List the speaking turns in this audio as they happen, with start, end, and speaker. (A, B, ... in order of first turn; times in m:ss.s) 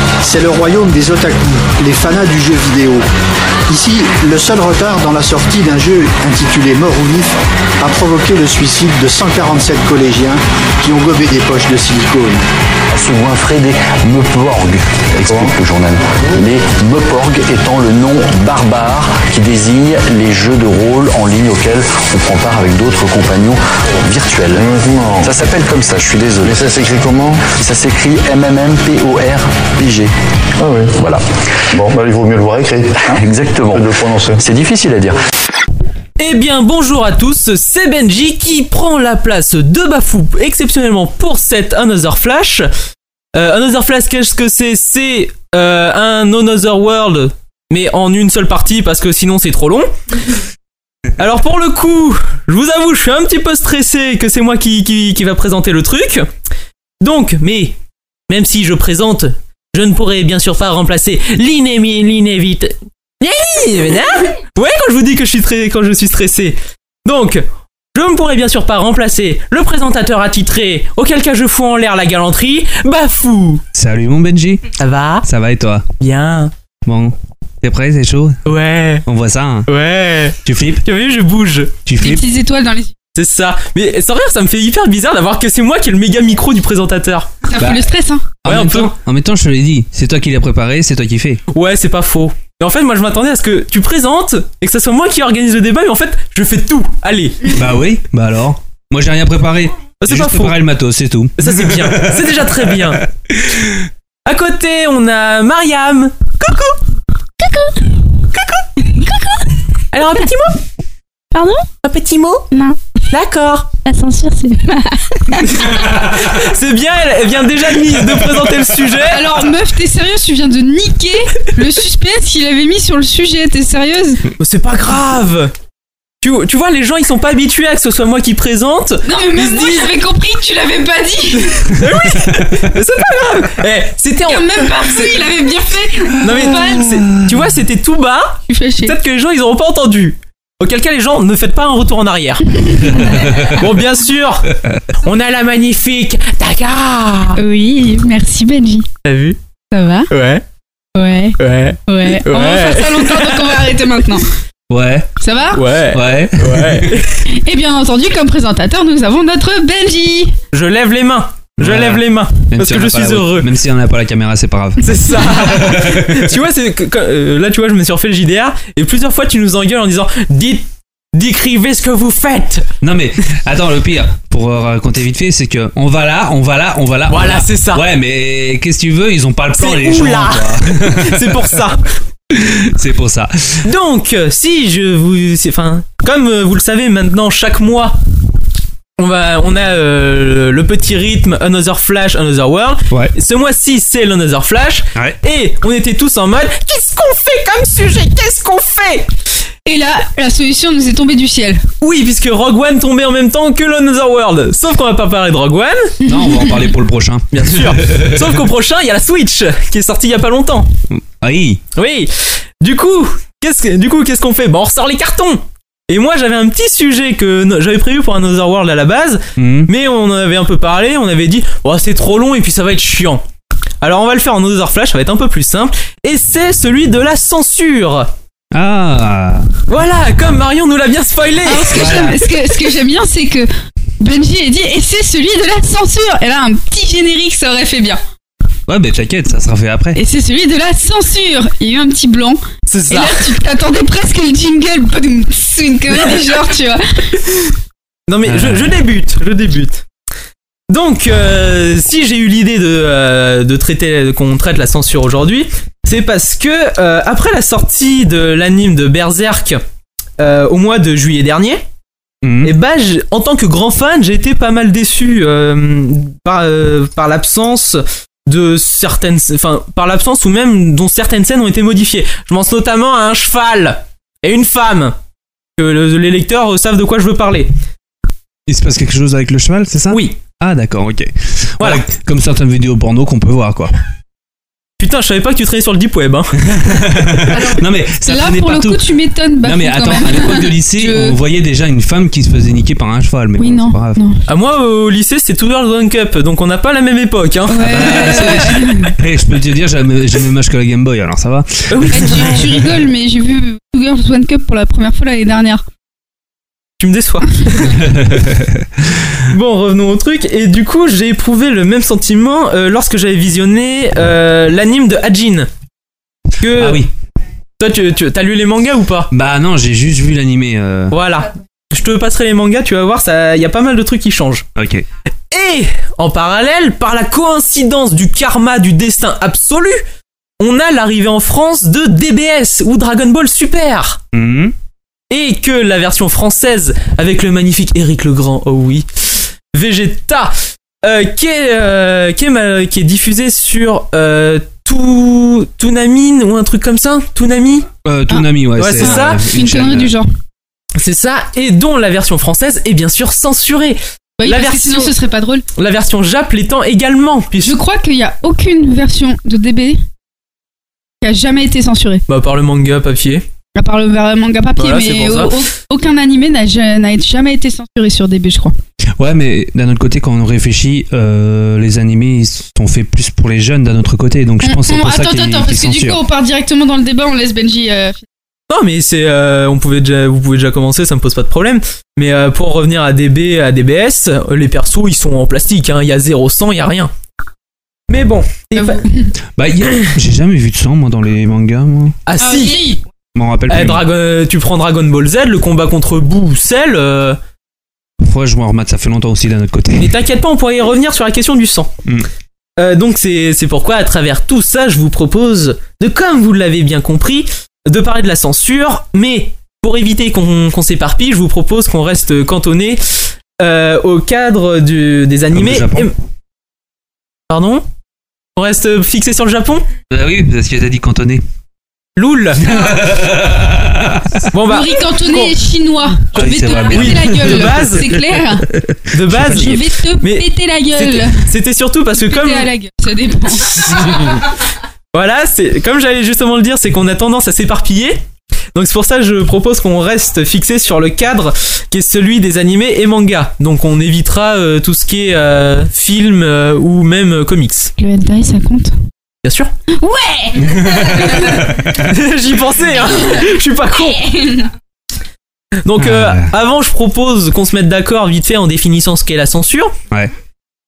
0:00.2-0:03.1 A
0:03.7-0:12.4 A
0:12.9-0:30.1 B
0:30.6-0:30.9 C
0:30.7-0:35.2 B
0:31.8-0:32.8 C
0:33.7-0:34.3 C
0:36.2-0:42.7 D
0:43.4-0:49.9 D
0:51.2-0:56.3 D
0:57.0-0:57.8 D
0:58.3-1:13.6 D
1:13.7-1:14.7 E
1:14.8-1:15.3 D
1:15.2-1:15.9 E
1:16.0-1:16.5 D
1:16.9-1:18.4 E
1:18.4-1:19.1 D
1:19.1-1:19.7 E
1:19.7-1:21.7 D
1:20.4-1:20.8 E
1:21.9-1:22.2 E
1:22.0-1:22.9 F
1:23.2-1:27.8 D
1:27.5-1:28.2 F
1:28.4-1:31.4 E
1:28.4-1:28.9 D
1:31.5-1:37.6 D
1:37.5-1:43.8 E
1:40.0-1:40.6 D
1:41.4-1:43.0 D
1:44.3-1:46.8 D
1:47.4-1:48.0 G
1:48.3-1:48.6 D
1:48.9-1:49.5 G
1:49.9-1:50.6 D
1:51.3-1:51.7 G
1:51.8-1:52.5 D
1:52.5-1:52.8 G
1:53.1-1:53.7 D
1:53.8-1:55.6 G
1:55.5-1:59.3 D
1:55.9-1:56.2 E
1:59.0-2:04.2 F
2:04.4-2:05.5 D
2:06.2-2:09.9 D
2:09.0-2:11.8 F
2:11.3-2:15.2 D
2:14.2-2:16.9 F
2:16.2-2:24.5 D
2:16.4-2:17.3 E
2:18.5-2:19.0 F
2:22.7-2:23.6 F
2:23.0-2:23.6 E
2:25.0-2:27.4 D
2:27.4-2:28.9 F
2:29.0-2:29.4 D
2:29.7-2:30.1 F
2:30.1-2:30.4 D
2:31.0-2:34.3 F
2:31.4-2:33.5 D
2:34.7-2:35.1 E
2:35.2-2:35.6 F
2:35.5-2:37.2 D
2:35.9-2:37.0 E
2:37.3-2:40.3 F
2:40.5-2:43.5 D
2:41.6-2:46.3 E
2:44.8-2:52.7 D
2:52.8-3:01.6 E
2:57.1-2:57.8 D
2:59.5-3:01.9 D
3:02.3-3:03.7 E
3:03.6-3:08.0 D
3:09.0-3:19.1 D
3:19.7-3:21.6 F
3:21.8-3:26.0 D
3:26.0-3:28.4 E
3:26.1-3:26.5 F
3:27.3-3:30.7 D
3:30.9-3:31.6 E
3:31.8-3:43.2 D
3:39.4-3:39.7 E
3:43.8-3:48.1 D
3:48.5-3:49.5 E
3:49.7-3:52.1 D
3:51.5-3:53.5 F
3:51.7-3:52.3 E
3:54.0-3:58.0 F
3:58.7-4:00.0 E
4:00.0-4:07.3 F
4:02.7-4:03.3 D
4:08.1-4:09.8 D
4:08.3-4:08.8 E
4:10.7-4:19.6 D
4:20.2-4:21.6 D
4:22.2-4:22.5 E
4:22.4-4:35.0 D
4:35.6-4:37.5 D
4:38.5-4:43.7 E
4:39.9-4:40.2 D
4:41.6-4:41.8 D
4:44.8-4:46.9 D
4:46.4-4:54.0 E
4:47.3-4:51.2 F
4:53.4-4:54.2 F
4:54.3-4:58.6 D
4:57.5-4:58.9 F
4:57.6-5:02.4 E
5:01.7-5:02.4 D
5:01.9-5:05.6 F
5:06.8-5:07.9 D
5:07.7-5:09.1 E
5:09.3-5:15.5 D
5:16.4-5:16.9 D
5:16.4-5:16.9 E
5:17.6-5:19.1 D
5:19.1-5:21.0 E
5:20.9-5:24.5 D
5:24.6-5:24.8 E
5:25.3-5:29.8 D
5:30.4-5:34.0 D
5:34.1-5:34.5 E
5:35.1-5:47.7 D
5:47.8-5:49.9 E
5:48.1-5:50.1 F
5:48.6-5:49.2 D
5:50.8-5:54.9 D
5:54.2-5:55.5 F
5:55.6-5:57.6 D
5:57.4-5:59.8 F
6:01.0-6:02.0 F
6:02.1-6:03.2 D
6:03.6-6:08.5 F
6:04.6-6:05.3 D
6:09.0-6:16.0 E
6:14.4-6:18.0 F
6:18.5-6:26.9 D
6:27.9-6:28.9 D
6:28.6-6:29.1 F
6:29.4-6:32.0 E
6:32.1-6:32.7 D
6:32.2-6:32.8 F
6:33.2-6:33.8 E
6:33.5-6:37.2 D
6:38.0-6:40.0 E
6:39.8-6:41.7 D
6:42.6-6:55.9 D
6:55.3-6:55.9 E
6:57.3-6:57.6 D
6:58.4-6:59.7 D
6:59.9-7:01.2 E
7:02.0-7:02.7 D
7:02.4-7:04.3 E
7:04.3-7:05.4 D
7:04.5-7:08.5 F
7:06.1-7:07.9 D
7:06.2-7:07.8 E
7:08.9-7:12.5 D
7:09.1-7:09.6 E
7:09.3-7:11.2 F
7:12.0-7:14.2 F
7:13.6-7:14.2 D
7:14.9-7:18.0 D
7:18.6-7:27.7 D
7:27.8-7:28.7 F
7:29.2-7:29.5 D
7:29.8-7:31.5 F
7:30.4-7:31.9 E
7:31.1-7:34.0 D
7:33.8-7:34.5 F
7:35.6-7:39.7 D
7:35.8-7:36.3 E